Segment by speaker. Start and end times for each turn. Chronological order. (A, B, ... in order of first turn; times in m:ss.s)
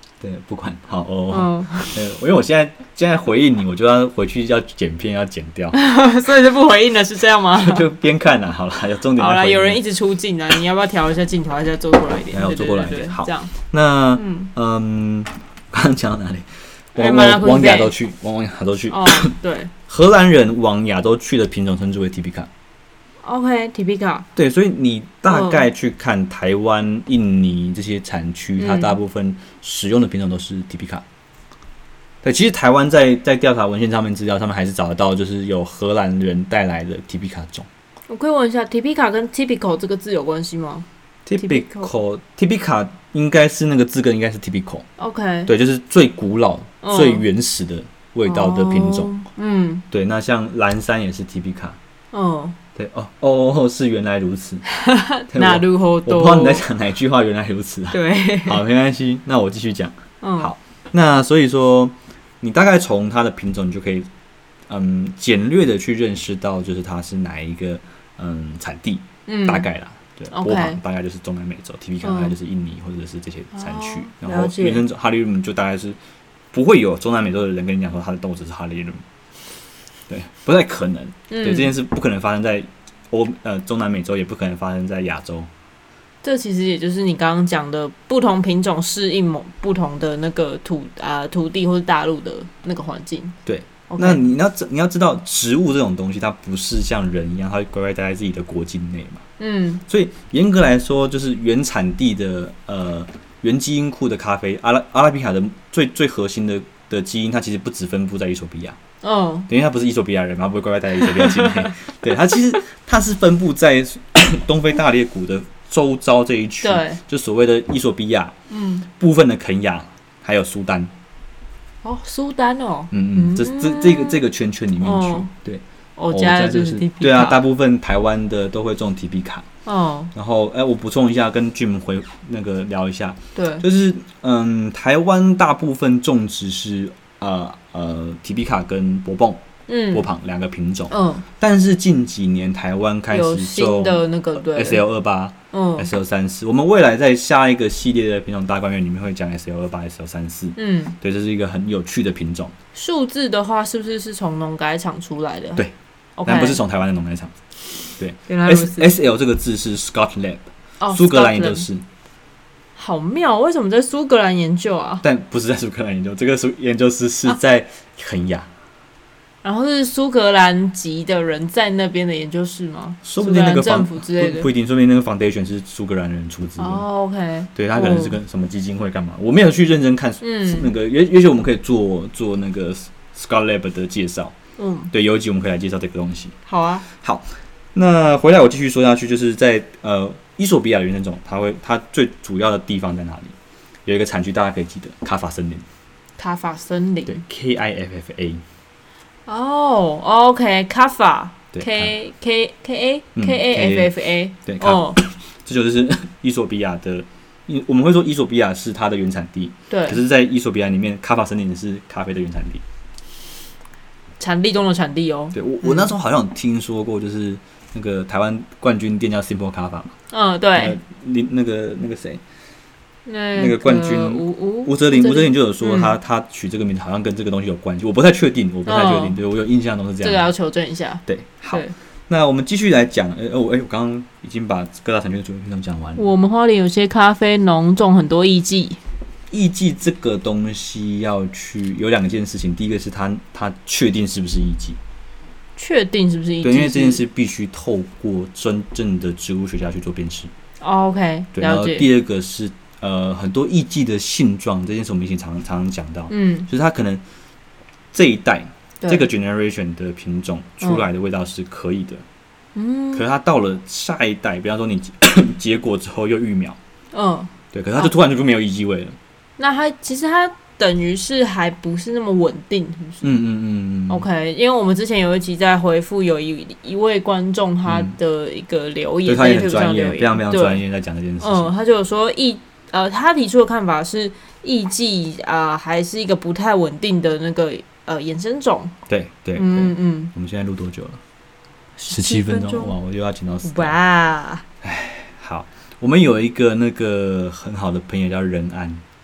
0:00.2-0:05.8 A
0:01.3-0:02.0 B
0:05.7-0:07.8 B
0:07.6-0:09.8 A
0:09.2-0:13.5 B
0:12.3-0:19.3 A
0:14.1-0:14.5 B
0:17.0-0:17.9 B
0:18.9-0:19.7 B
0:19.9-0:22.5 A
0:23.2-0:24.3 B
0:24.3-0:31.0 A
0:25.3-0:25.6 B
0:28.6-0:29.0 B
0:32.2-0:37.7 A
0:38.1-0:40.8 B
0:41.2-0:44.8 A
0:41.4-0:41.9 B
0:45.0-0:45.5 B
0:45.5-0:49.1 A
0:46.8-0:47.2 B
0:48.2-0:49.8 B
0:49.9-0:51.8 A
0:52.1-0:52.6 B
0:52.7-0:54.6 A
0:54.7-0:56.6 B
0:55.3-1:04.1 A
0:57.9-0:58.6 B
1:00.2-1:00.5 B
1:04.7-1:16.0 A
1:09.3-1:09.7 B
1:10.3-1:10.8 B
1:12.0-1:12.3 B
1:13.5-1:14.8 B
1:16.5-1:19.0 A
1:20.1-1:25.5 A
1:21.3-1:21.7 B
1:26.2-1:33.4 B
1:33.4-1:39.2 A
1:33.9-1:34.2 B
1:39.4-1:39.8 B
1:39.9-1:48.8 A
1:49.0-1:49.5 B
1:49.5-1:58.3 A
1:56.6-1:57.0 B
1:58.5-1:58.9 B
1:58.9-2:00.9 A
2:01.8-2:04.2 B
2:02.9-2:09.5 A
2:04.8-2:05.3 B
2:06.0-2:07.4 B
2:09.6-2:10.1 B
2:10.1-2:32.5 A
2:13.3-2:13.6 B
2:19.7-2:20.1 B
2:20.9-2:21.2 B
2:23.1-2:24.8 B
2:25.5-2:25.9 B
2:30.6-2:31.0 B
2:32.7-2:35.6 B
2:36.2-2:36.6 B
2:36.2-2:37.3 A
2:38.0-2:41.8 A
2:38.3-2:38.9 B
2:40.8-2:41.7 B
2:42.8-2:45.0 B
2:45.0-2:48.5 A
2:49.4-2:54.5 B
2:53.0-2:56.8 A
2:56.6-2:58.2 B
2:57.5-3:04.3 A
3:00.2-3:00.7 B
3:04.6-3:04.9 B
3:04.9-3:06.4 A
3:06.4-3:06.8 B
3:07.0-3:13.3 A
3:13.8-3:15.6 A
3:16.2-3:17.2 B
3:17.1-3:18.4 A
3:19.3-3:25.0 B
3:21.5-3:21.9 A
3:23.2-3:23.9 A
3:24.4-3:32.6 A
3:29.7-3:30.0 B
3:34.2-3:35.9 B
3:35.3-3:39.9 A
3:40.1-3:40.8 B
3:40.5-3:42.2 A
3:43.0-3:46.0 B
3:43.4-3:50.3 A
3:48.6-3:49.2 B
3:50.0-3:51.7 B
3:51.1-3:56.1 A
3:56.0-3:58.8 B
3:59.3-4:04.8 A
4:05.6-4:07.0 B
4:06.4-4:10.3 A
4:10.6-4:11.9 B
4:11.3-4:17.0 A
4:16.1-4:16.5 B
4:17.9-4:22.0 A
4:18.8-4:19.1 B
4:22.5-4:23.0 B
4:22.9-4:26.6 A
4:26.9-4:27.9 B
4:27.5-4:29.0 A
4:29.4-4:33.1 B
4:33.0-4:34.0 A
4:33.9-4:40.6 B
4:37.6-4:37.9 A
4:39.0-4:41.5 A
4:41.2-4:48.7 B
4:48.9-4:51.0 A
4:49.3-4:50.1 B
4:51.8-4:52.7 B
4:51.9-4:53.8 A
4:53.4-4:54.4 B
4:54.6-4:58.8 A